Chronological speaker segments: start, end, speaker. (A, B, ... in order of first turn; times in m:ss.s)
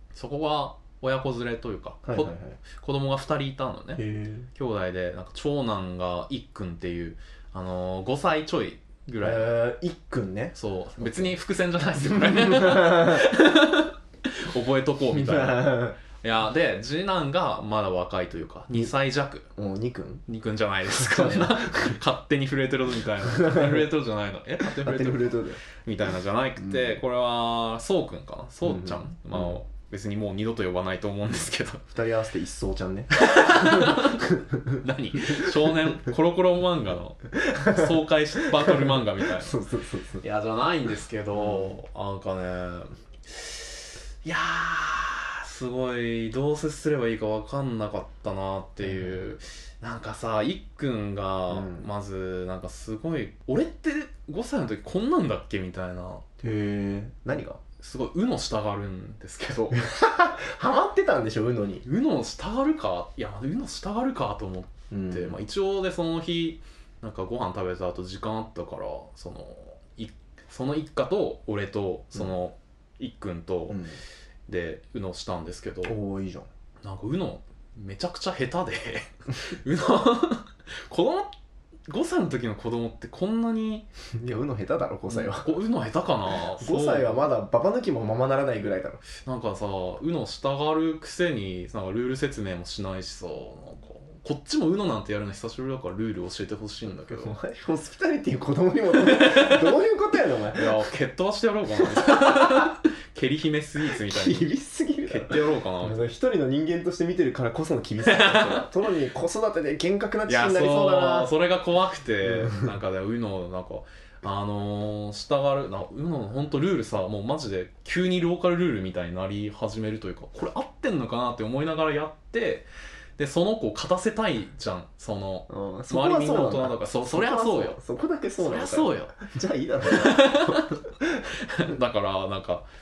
0:00.1-0:09.5 A
0:02.0-0:02.6 B
0:04.0-0:04.5 B
0:09.2-0:11.3 B
0:10.5-0:19.5 A
0:12.0-0:13.3 B
0:15.1-0:16.0 B
0:19.5-0:20.2 B
0:20.3-0:31.8 A
0:20.9-0:22.0 B
0:23.3-0:23.8 B
0:24.6-0:25.6 B
0:26.6-0:26.9 B
0:28.6-0:29.5 B
0:31.9-0:34.8 B
0:33.1-0:39.6 A
0:35.3-0:35.9 B
0:37.3-0:40.2 B
0:40.2-0:56.3 A
0:41.3-0:41.8 B
0:48.8-0:49.2 B
0:51.5-0:51.9 B
0:56.4-0:57.6 B
0:57.8-0:59.8 A
0:59.7-1:01.8 B
1:01.8-1:13.8 A
1:04.9-1:05.4 B
1:13.7-1:14.0 B
1:14.5-1:16.0 A
1:15.8-1:16.5 B
1:16.8-1:21.3 A
1:21.9-1:23.9 A
1:24.1-1:25.6 B
1:25.1-1:27.2 A
1:26.6-1:29.0 B
1:29.2-1:37.4 A
1:37.1-1:40.8 B
1:39.0-1:39.7 A
1:40.5-1:44.5 A
1:41.8-1:42.7 B
1:43.9-1:51.3 B
1:45.1-1:46.0 A
1:48.0-1:48.7 A
1:50.3-2:02.7 A
1:52.2-1:52.7 B
2:03.2-2:07.8 A
2:05.5-2:11.3 B
2:08.4-2:09.2 A
2:09.8-2:10.8 A
2:11.3-2:12.6 A